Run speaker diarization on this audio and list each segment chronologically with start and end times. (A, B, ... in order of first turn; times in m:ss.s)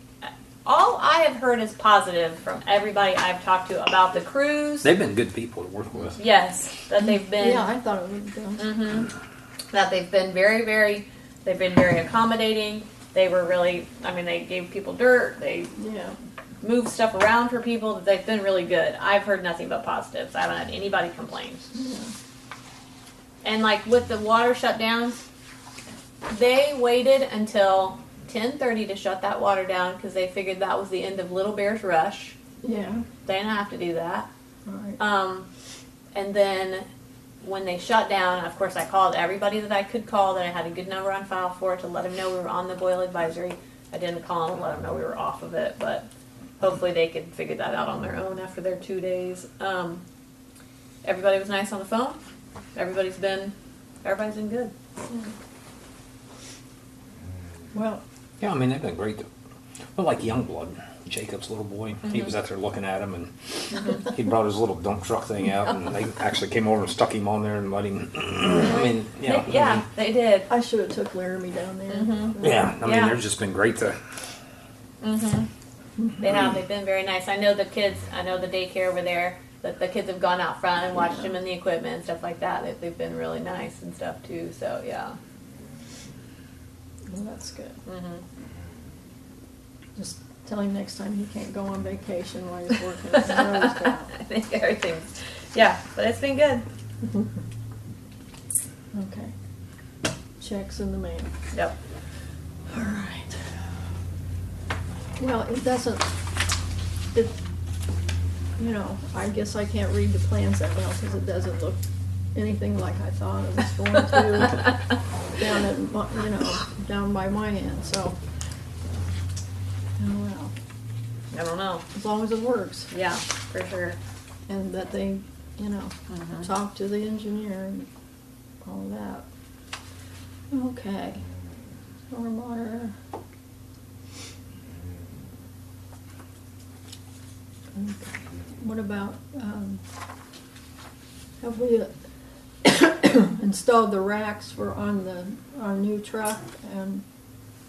0:00.2-0:04.9 A
0:04.8-0:06.2 B
0:06.2-0:07.7 A
0:07.1-0:08.7 C
0:08.6-0:09.1 A
0:09.7-0:15.7 A
0:15.8-0:16.2 C
0:16.6-0:21.7 A
0:21.7-0:22.1 C
0:23.4-0:25.2 A
0:26.3-0:32.4 A
0:32.6-0:33.0 C
0:33.2-0:34.3 A
0:34.6-0:35.0 C
0:35.0-0:35.5 A
0:36.1-0:36.8 A
0:37.4-0:46.0 A
0:46.6-0:50.0 A
0:51.0-0:52.2 A
0:52.8-0:54.7 A
0:57.7-0:58.0 C
0:58.4-0:59.3 B
1:00.0-1:09.8 B
1:02.0-1:02.3 A
1:03.7-1:04.0 A
1:08.6-1:10.5 A
1:10.5-1:12.7 C
1:11.9-1:13.2 A
1:12.4-1:14.0 B
1:15.0-1:15.5 A
1:16.2-1:25.2 A
1:20.9-1:21.3 C
1:27.1-1:27.8 C
1:27.8-1:28.2 A
1:30.0-1:34.1 C
1:33.1-1:36.6 A
1:37.0-1:37.3 C
1:38.9-1:39.3 C
1:40.4-1:41.3 C
1:42.7-1:43.4 C
1:45.2-1:46.1 C
1:48.6-1:54.8 C
1:55.4-1:58.2 C
2:00.0-2:00.5 C
2:01.3-2:01.8 A
2:01.9-2:02.9 C
2:02.9-2:04.0 A
2:04.5-2:07.9 C
2:06.1-2:06.5 A
2:08.6-2:09.2 C
2:10.5-2:11.2 C
2:12.1-2:12.9 C
2:17.7-2:19.8 C
2:21.4-2:21.9 C
2:22.6-2:27.0 C